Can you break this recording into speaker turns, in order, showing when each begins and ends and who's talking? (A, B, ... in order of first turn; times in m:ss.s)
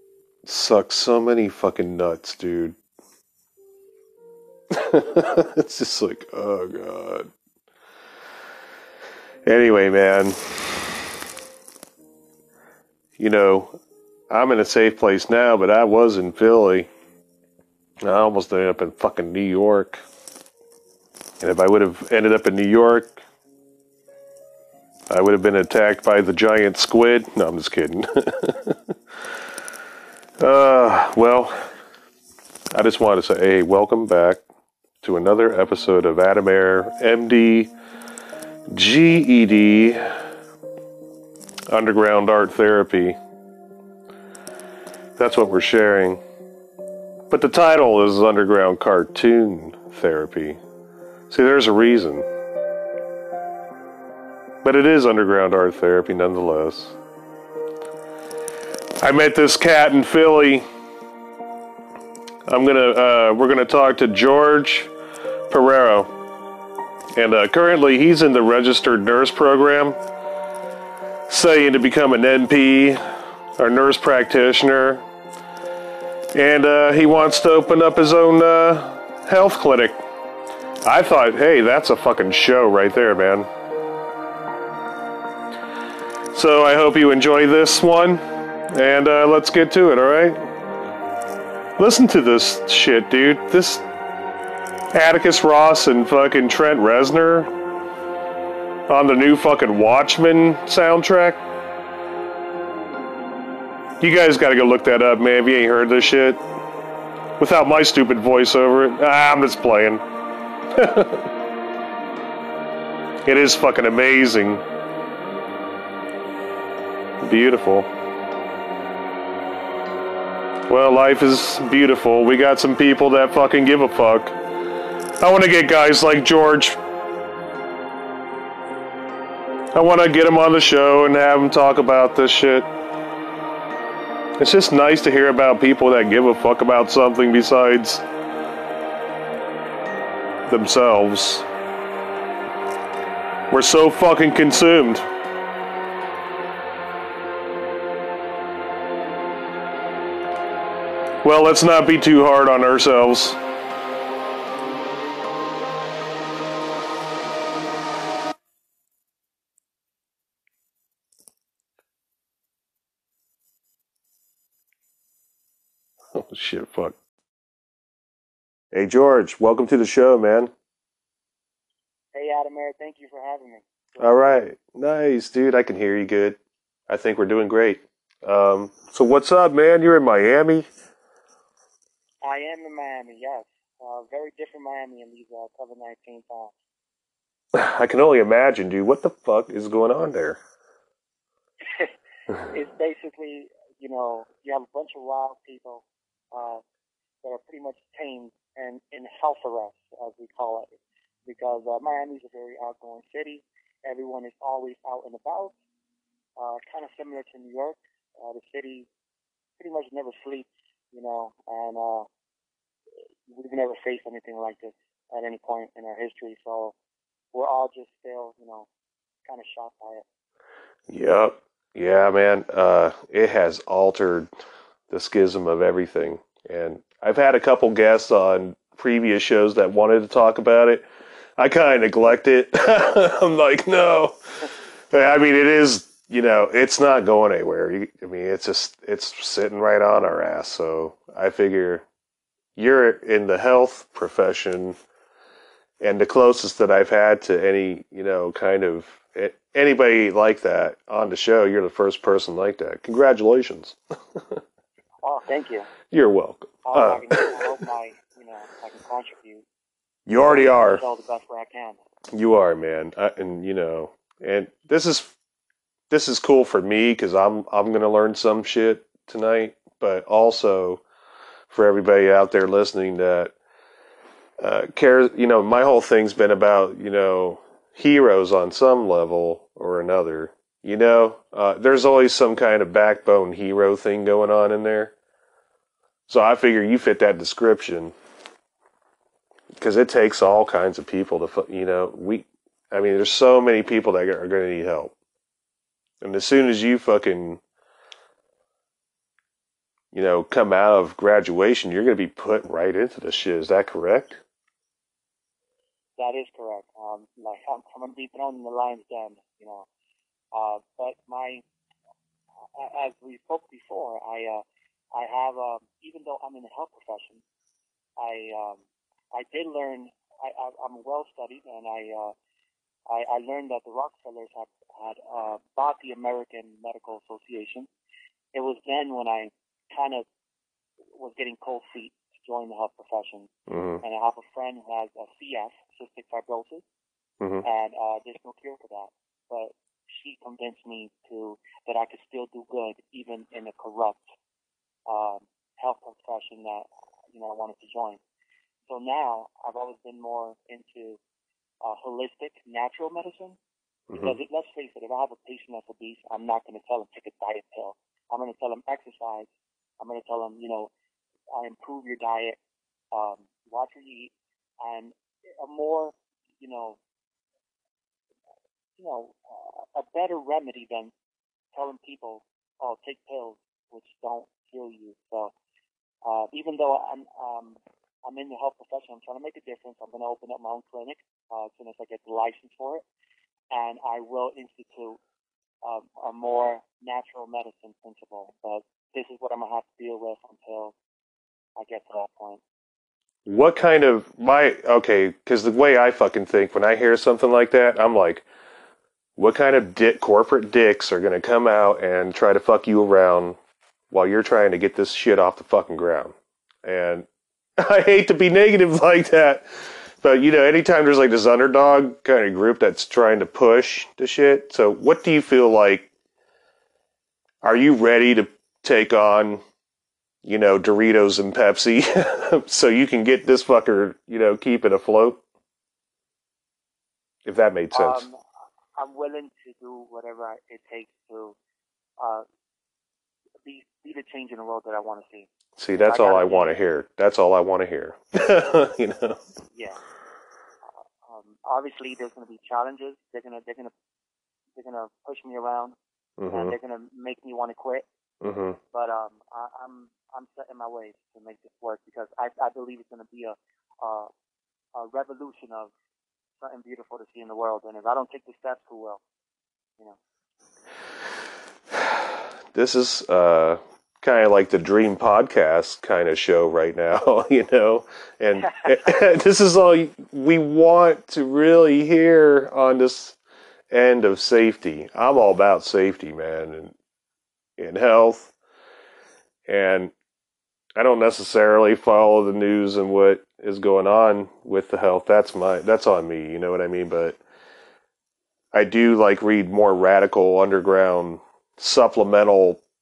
0:00.4-0:02.8 A
0:04.7-0:07.3 A
0:09.4-0:11.2 A
0:13.2-0:13.8 A
0:14.3-0:16.9 A
0:18.0-0:20.0 A
0:21.4-0:23.2 A
0:25.1-0:28.9 A
0:30.4-0:31.7 A
0:32.7-0:34.4 A
0:35.0-0:37.7 A
0:38.7-0:40.2 A
0:41.7-0:43.2 A
0:45.2-0:46.2 A
0:47.3-0:50.6 A
0:51.3-0:52.3 A
0:54.6-0:57.0 A
0:59.0-1:00.6 A
1:02.4-1:04.9 A
1:05.5-1:06.1 A
1:07.2-1:10.0 A
1:11.3-1:13.0 A
1:13.6-1:15.0 A
1:16.3-1:20.0 A
1:20.8-1:23.5 A
1:26.3-1:30.4 A
1:31.8-1:33.8 A
1:34.9-1:37.5 A
1:38.9-1:41.4 A
1:44.0-1:46.4 A
1:47.4-1:50.1 A
1:50.7-1:51.3 A
1:53.2-1:54.6 A
1:57.2-1:57.9 A
2:00.7-2:04.4 A
2:05.2-2:06.8 A
2:09.7-2:12.7 A
2:14.4-2:18.0 A
2:20.5-2:21.5 A
2:23.5-2:25.1 A
2:31.2-2:33.4 A
2:46.1-2:47.0 A
2:48.7-2:50.5 A
2:52.1-2:54.4 B
2:54.0-3:00.7 A
3:02.2-3:06.5 B
3:07.5-3:10.4 A
3:11.7-3:16.6 B
3:17.2-3:20.7 B
3:21.3-3:25.6 B
3:26.4-3:28.9 B
3:29.6-3:32.1 B
3:33.3-3:36.8 B
3:37.3-3:38.7 B
3:39.3-3:40.0 B
3:40.9-3:44.3 A
3:44.9-4:01.8 A
4:02.6-4:04.8 A
4:05.8-4:14.4 A
4:15.0-4:15.7 B
4:15.9-4:17.6 A
4:16.6-4:19.4 B
4:20.1-4:20.8 A
4:20.2-4:21.8 B
4:22.1-4:25.1 A
4:25.9-4:30.8 A
4:31.5-4:33.3 A
4:34.4-4:44.9 A
4:46.1-4:48.0 A
4:49.6-4:54.9 A
4:56.0-4:57.4 A
4:59.9-5:04.2 A
5:06.0-5:09.7 B
5:10.3-5:11.4 B
5:12.6-5:17.2 B
5:18.0-5:18.6 B
5:19.1-5:22.1 B
5:22.9-5:27.7 B
5:28.3-5:30.1 B
5:31.0-5:36.6 B
5:33.5-5:33.8 A
5:37.4-5:44.0 B
5:44.9-5:48.0 B
5:48.7-5:51.0 B
5:51.6-5:53.4 B
5:54.0-5:59.3 B
5:59.8-6:00.7 B
6:01.3-6:02.4 B
6:02.9-6:06.8 B
6:08.8-6:10.9 B
6:11.5-6:15.3 B
6:16.0-6:22.8 B
6:23.5-6:25.0 B
6:25.6-6:30.8 B
6:31.6-6:32.4 B
6:33.3-6:38.3 A
6:39.2-6:43.4 A
6:43.9-6:47.1 A
6:47.6-6:55.9 A
6:57.4-6:59.4 A
7:00.2-7:05.2 A
7:07.2-7:08.0 A
7:07.7-7:08.2 B
7:08.8-7:11.4 B
7:12.0-7:12.2 B
7:13.4-7:16.6 B
7:15.6-7:19.2 A
7:19.5-7:19.8 B
7:21.0-7:23.7 B
7:24.6-7:25.8 B
7:26.2-7:26.6 A
7:26.3-7:27.8 B
7:28.2-7:28.6 A
7:28.7-7:34.1 B
7:34.8-7:35.7 B
7:36.4-7:39.0 B
7:41.7-7:53.2 A
7:53.7-7:56.8 A
7:57.6-7:58.3 A
7:59.5-7:59.9 A
8:00.8-8:07.2 A
8:08.5-8:12.6 A